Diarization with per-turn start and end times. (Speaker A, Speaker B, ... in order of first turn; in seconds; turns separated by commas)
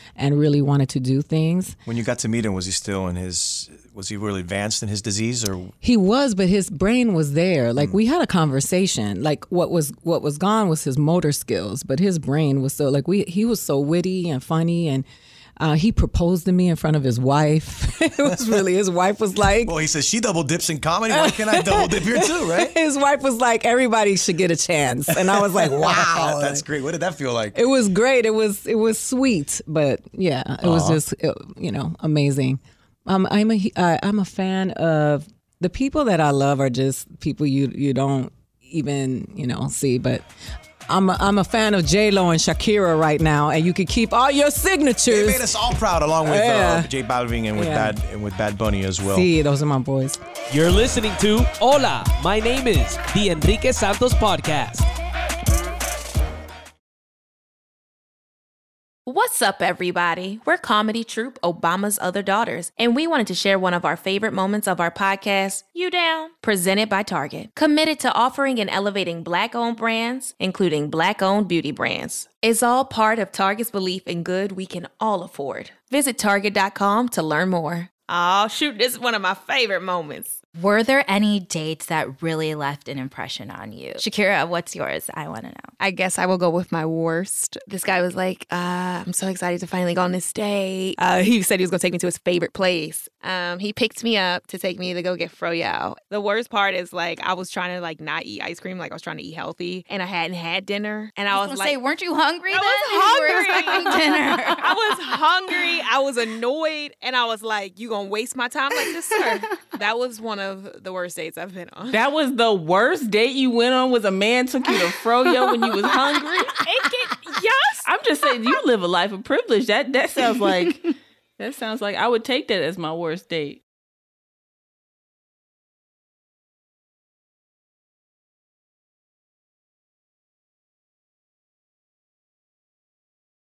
Speaker A: 0.2-1.8, Speaker B: 1.9-5.7, Speaker A: 5.8-15.1, Speaker A: 15.6-19.7, Speaker B: 19.6-22.7, Speaker A: 21.1-26.6, Speaker B: 25.1-27.6, Speaker A: 27.5-40.2, Speaker B: 30.6-31.0, Speaker A: 40.9-45.5, Speaker B: 45.1-49.3, Speaker A: 46.2-46.9, Speaker A: 47.5-48.0, Speaker A: 49.0-50.2, Speaker C: 50.5-54.9, Speaker D: 59.1-80.4, Speaker E: 80.5-85.7, Speaker D: 85.8-112.0, Speaker E: 103.0-104.6, Speaker F: 111.9-117.2, Speaker D: 115.5-117.9, Speaker F: 117.8-123.6, Speaker D: 120.4-120.7